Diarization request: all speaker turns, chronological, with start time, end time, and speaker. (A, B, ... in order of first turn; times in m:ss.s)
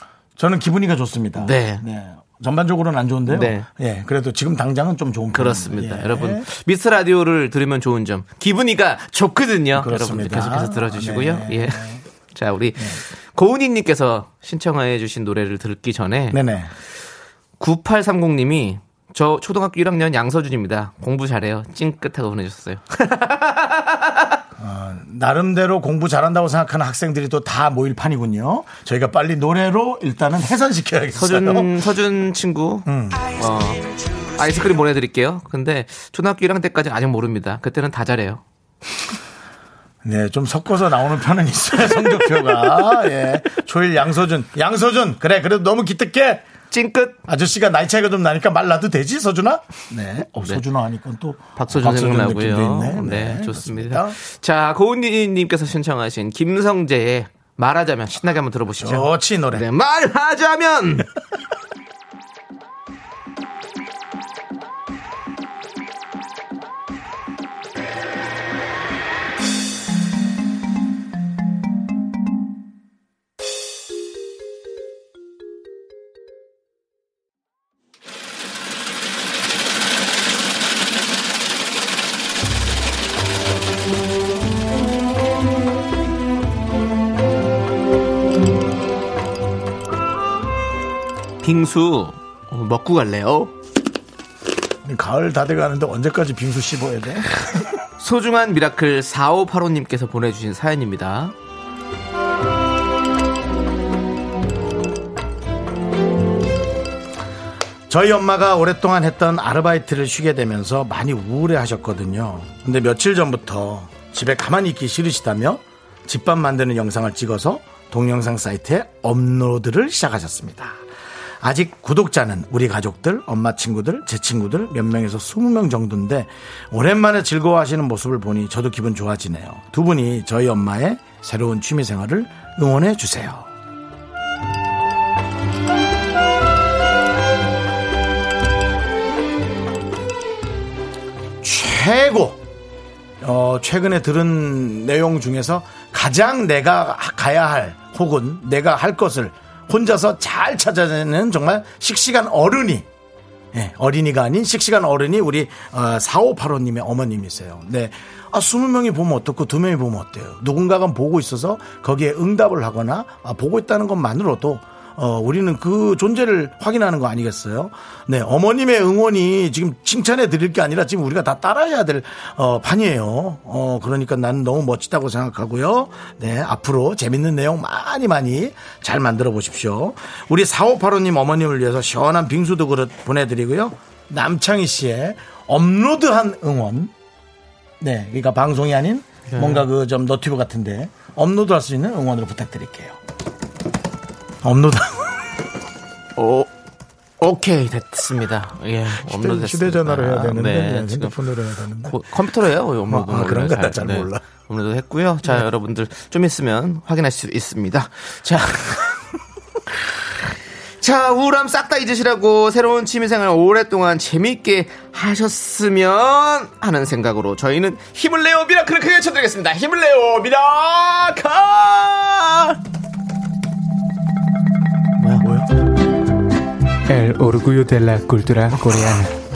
0:00.4-0:06.4 A
0:01.4-0:01.8 B
0:03.3-0:03.6 B
0:05.3-0:16.4 B
0:09.7-0:12.0 A
0:16.3-0:16.7 A
0:17.6-0:24.4 B
0:24.6-0:31.7 A
0:31.1-0:33.8 B
0:32.8-0:33.2 A
0:34.4-0:38.4 B
0:40.0-0:46.4 A
0:46.7-0:47.2 B
0:47.2-0:54.2 A
0:51.6-1:01.1 B
0:58.8-0:59.6 A
1:31.4-1:33.5 B
1:34.8-1:37.3 A
1:38.0-1:41.3 B
1:47.9-2:00.8 A
2:01.4-2:13.5 A
2:21.4-2:22.4 A
2:23.2-2:32.8 A
2:33.5-3:06.9 A
3:07.8-3:13.0 A
3:09.3-3:09.6 B
3:14.4-3:15.3 A
3:16.2-3:16.5 B
3:17.2-3:21.2 B
3:18.9-3:22.0 A
3:21.8-3:29.0 B
3:22.9-3:24.2 A
3:30.8-3:42.6 B
3:45.0-3:45.2 B
3:45.2-3:45.5 A
3:46.9-3:49.1 C